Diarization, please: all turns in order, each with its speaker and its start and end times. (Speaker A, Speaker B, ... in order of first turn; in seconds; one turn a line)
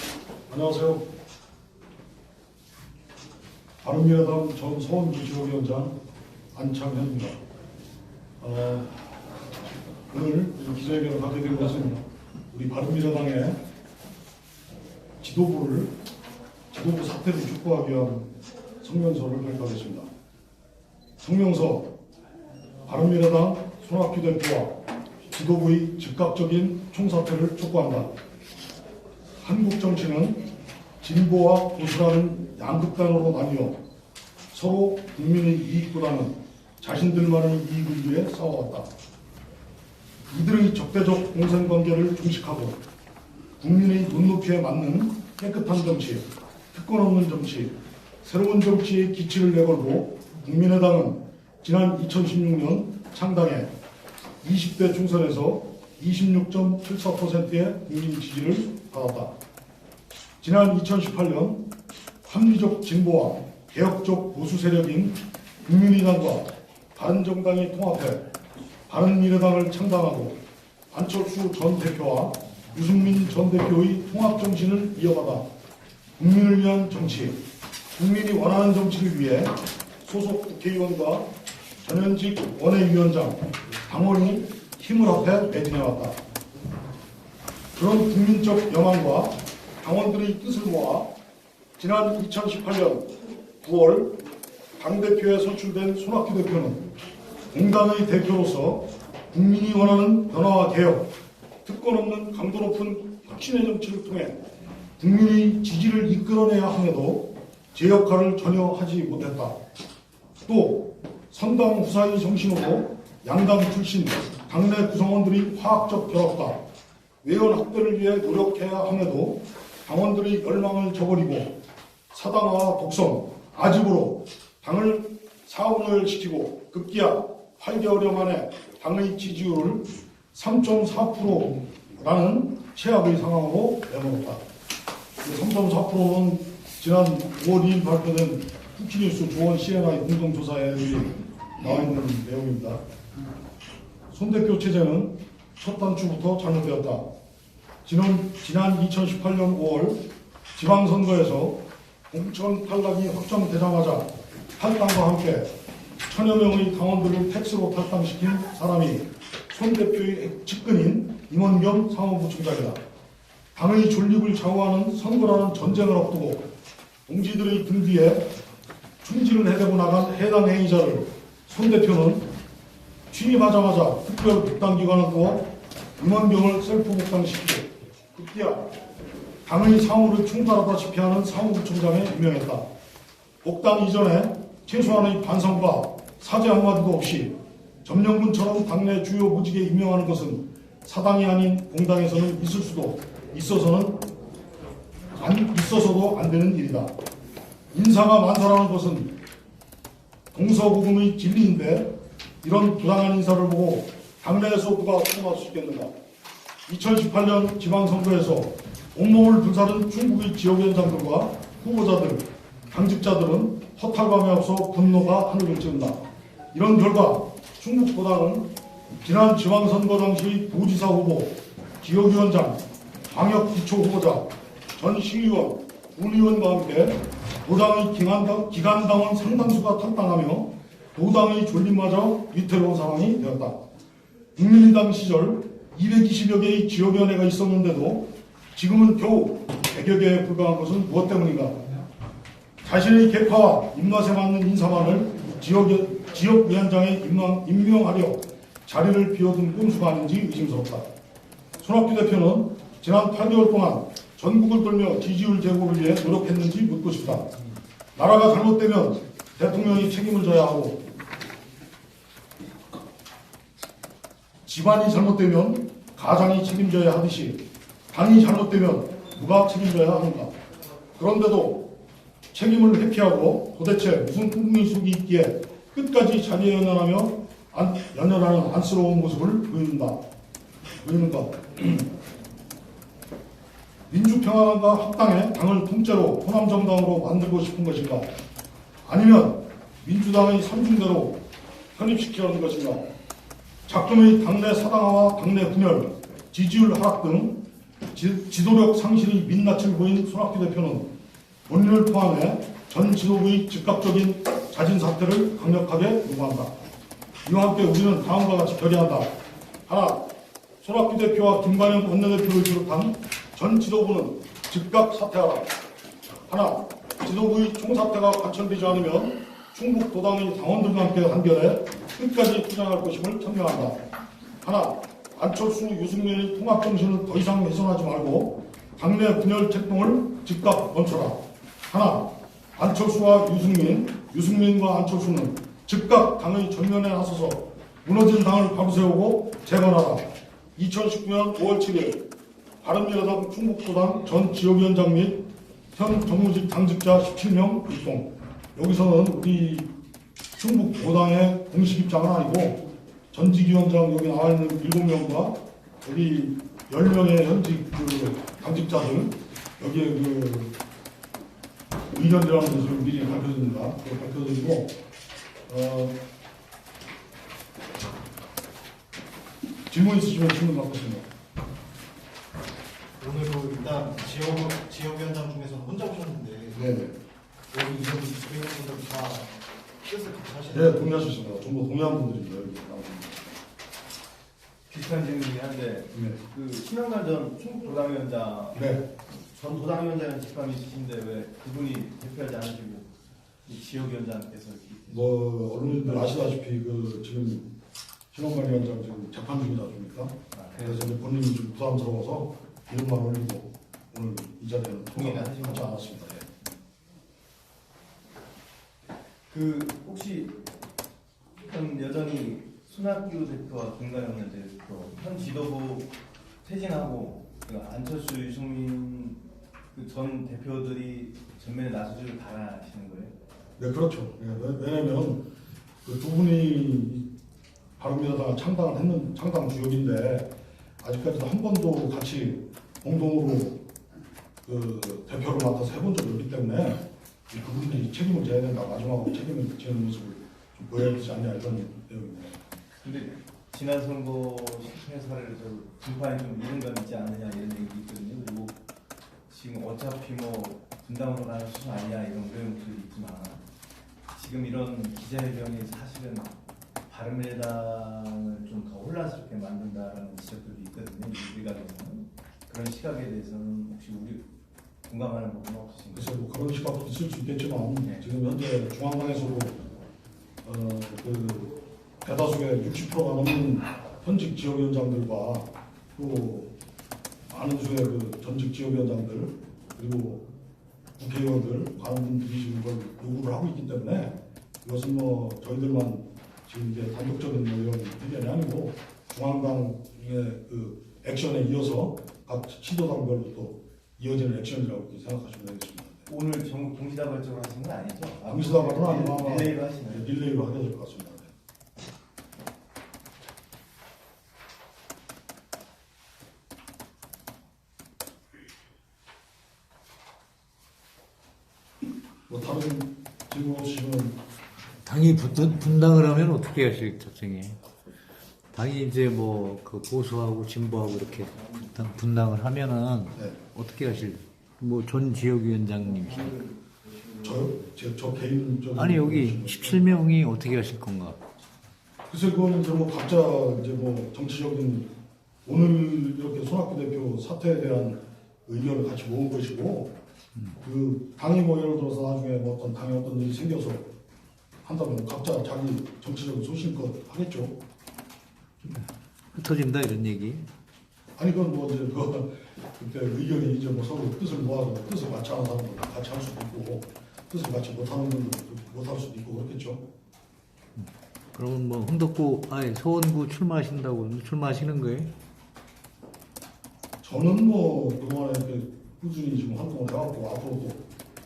Speaker A: 0.5-1.1
Speaker A: 3.8-6.0
Speaker A: 6.5-7.4
Speaker A: 8.4-9.1
Speaker A: 10.1-13.6
Speaker A: 15.2-15.9
Speaker A: 16.7-20.1
Speaker A: 21.2-21.9
Speaker A: 22.9-24.8
Speaker A: 25.3-28.1
Speaker A: 29.4-30.4
Speaker A: 31.0-33.8
Speaker A: 34.5-38.9
Speaker A: 40.3-42.8
Speaker A: 43.6-53.7
Speaker A: 54.4-59.3
Speaker A: 60.4-61.7
Speaker A: 62.2-68.3
Speaker A: 68.9-70.4
Speaker A: 70.9-75.4
Speaker A: 76.2-77.4
Speaker A: 78.0-81.3
Speaker A: 81.8-86.2
Speaker A: 87.8-91.1
Speaker A: 91.8-94.2
Speaker A: 94.8-96.9
Speaker A: 97.5-101.1
Speaker A: 101.7-104.4
Speaker A: 105.0-109.6
Speaker A: 110.5-116.6
Speaker A: 117.2-121.5
Speaker A: 122.1-134.4
Speaker A: 135.2-142.8
Speaker A: 144.1-147.0
Speaker A: 147.8-155.5
Speaker A: 156.1-162.8
Speaker A: 163.6-166.5
Speaker A: 167.1-168.3
Speaker A: 169.0-172.3
Speaker A: 173.1-178.7
Speaker A: 179.5-182.7
Speaker A: 183.4-194.1
Speaker A: 195.2-196.9
Speaker A: 197.7-199.1
Speaker A: 200.3-205.9
Speaker A: 206.7-216.0
Speaker A: 216.5-233.6
Speaker A: 234.4-241.6
Speaker A: 242.6-250.9
Speaker A: 251.6-257.3
Speaker A: 258.0-260.8
Speaker A: 264.5-270.3
Speaker A: 271.0-271.7
Speaker A: 272.3-280.0
Speaker A: 280.8-281.9
Speaker A: 283.9-288.1
Speaker A: 288.9-291.2
Speaker A: 291.8-292.9
Speaker A: 293.7-300.9
Speaker A: 301.5-306.5
Speaker A: 307.2-309.1
Speaker A: 309.7-310.0
Speaker A: 310.6-315.5
Speaker A: 316.3-323.8
Speaker A: 324.4-342.0
Speaker A: 342.6-349.7
Speaker A: 350.4-360.6
Speaker A: 361.9-364.8
Speaker A: 365.5-366.0
Speaker A: 369.7-371.1
Speaker B: 373.0-376.7
Speaker A: 376.6-376.9
Speaker B: 377.5-381.0
Speaker A: 380.5-383.2
Speaker C: 384.7-388.8
Speaker A: 385.9-386.2
Speaker A: 388.5-388.9
Speaker C: 389.3-392.9
Speaker C: 393.4-396.3
Speaker A: 394.9-397.5
Speaker A: 398.1-406.3
Speaker C: 400.3-400.9
Speaker C: 404.9-405.6
Speaker C: 409.3-410.4
Speaker C: 411.4-419.2
Speaker C: 419.7-423.1
Speaker A: 423.6-425.3
Speaker A: 425.9-427.1
Speaker A: 427.8-430.3
Speaker A: 430.8-433.6
Speaker A: 434.4-442.4
Speaker C: 442.8-448.6
Speaker C: 449.3-453.4
Speaker C: 454.1-456.4
Speaker C: 456.9-464.3
Speaker C: 464.9-466.2
Speaker A: 465.9-469.6
Speaker A: 470.4-476.5
Speaker A: 477.3-480.3
Speaker A: 481.0-496.1
Speaker C: 496.1-500.2
Speaker A: 498.3-501.3
Speaker A: 512.3-514.2
Speaker D: 514.8-517.6
Speaker D: 518.5-526.5
Speaker B: 525.8-526.4
Speaker A: 527.2-530.0
Speaker D: 528.7-531.2
Speaker A: 532.1-534.9
Speaker A: 535.5-539.9
Speaker A: 540.6-543.9
Speaker A: 544.6-547.6
Speaker D: 548.6-550.5
Speaker A: 551.2-559.8
Speaker D: 560.8-565.1
Speaker A: 567.0-570.8